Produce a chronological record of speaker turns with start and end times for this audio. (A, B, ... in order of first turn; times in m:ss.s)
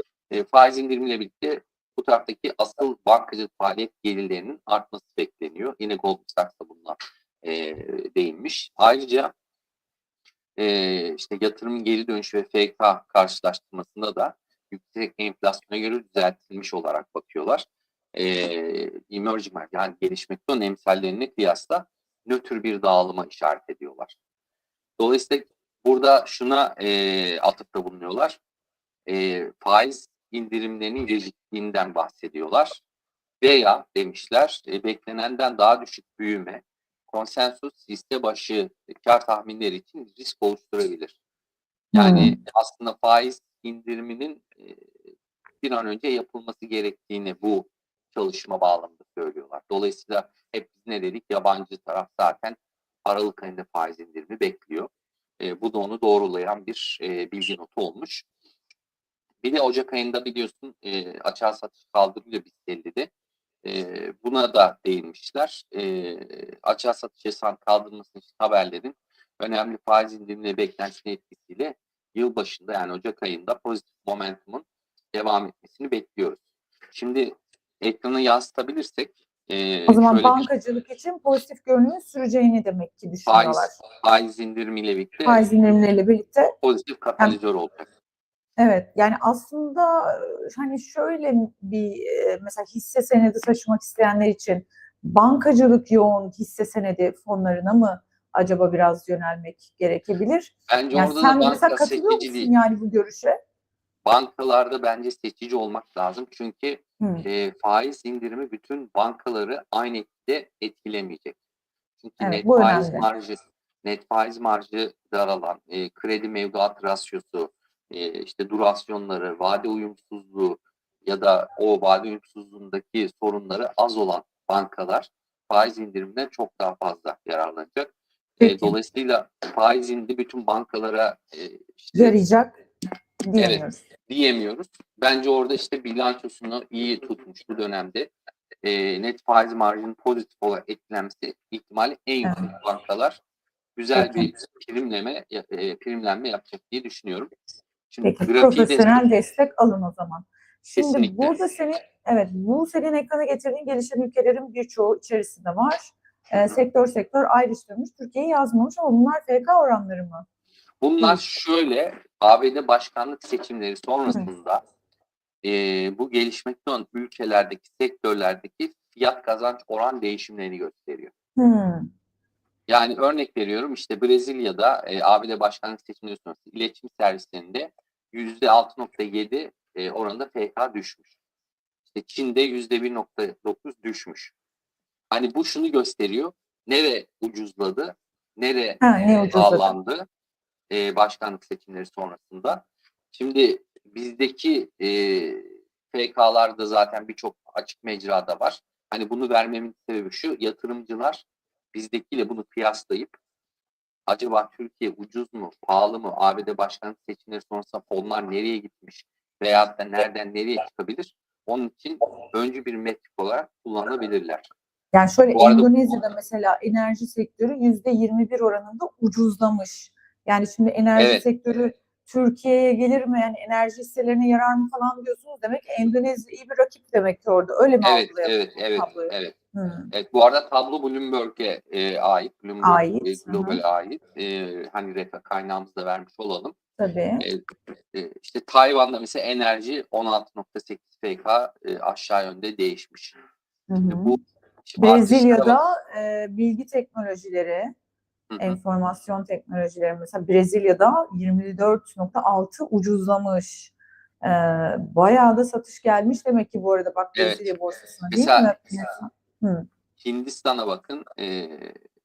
0:00.3-0:09.3 A
0:10.6-0:24.2 A
0:25.0-0:28.4 A
0:29.1-0:32.8 A
0:33.4-0:41.2 A
0:41.9-0:42.4 B
0:41.9-0:44.9 A
0:45.6-0:54.9 A
0:55.4-0:58.2 A
0:59.4-1:03.1 A
1:03.6-1:20.5 A
1:19.9-1:23.8 B
1:23.3-1:25.5 A
1:25.2-1:26.5 B
1:26.6-1:27.9 A
1:28.6-1:43.4 B
1:40.7-1:42.5 A
1:44.0-1:51.4 A
1:47.0-1:47.2 B
1:52.0-2:12.2 A
1:52.2-1:53.1 B
2:08.4-2:08.8 B
2:11.9-2:12.5 B
2:13.3-2:13.8 B
2:13.4-2:18.1 A
2:18.6-2:23.2 A
2:22.2-2:22.5 B
2:23.8-2:27.3 A
2:24.0-2:24.3 B
2:27.9-2:29.0 A
2:28.0-2:40.2 B
2:30.8-2:31.4 A
2:40.8-2:44.6 A
2:45.4-2:51.1 A
2:51.4-2:51.9 B
2:52.7-3:01.1 A
3:01.9-3:04.3 A
3:05.1-3:10.1 A
3:08.8-3:09.7 B
3:10.7-3:23.2 A
3:24.1-3:34.5 A
3:34.9-3:49.9 B
3:35.3-3:35.7 A
3:41.0-3:41.2 A
3:47.8-3:49.4 A
3:49.9-3:56.5 A
3:52.6-3:53.6 B
3:56.8-3:57.2 B
3:57.9-4:03.2 A
4:03.7-4:04.2 B
4:03.9-4:05.6 A
4:04.8-4:07.7 B
4:08.3-4:08.6 A
4:08.4-4:19.7 B
4:17.2-4:17.5 A
4:18.1-4:18.6 A
4:20.0-4:21.8 A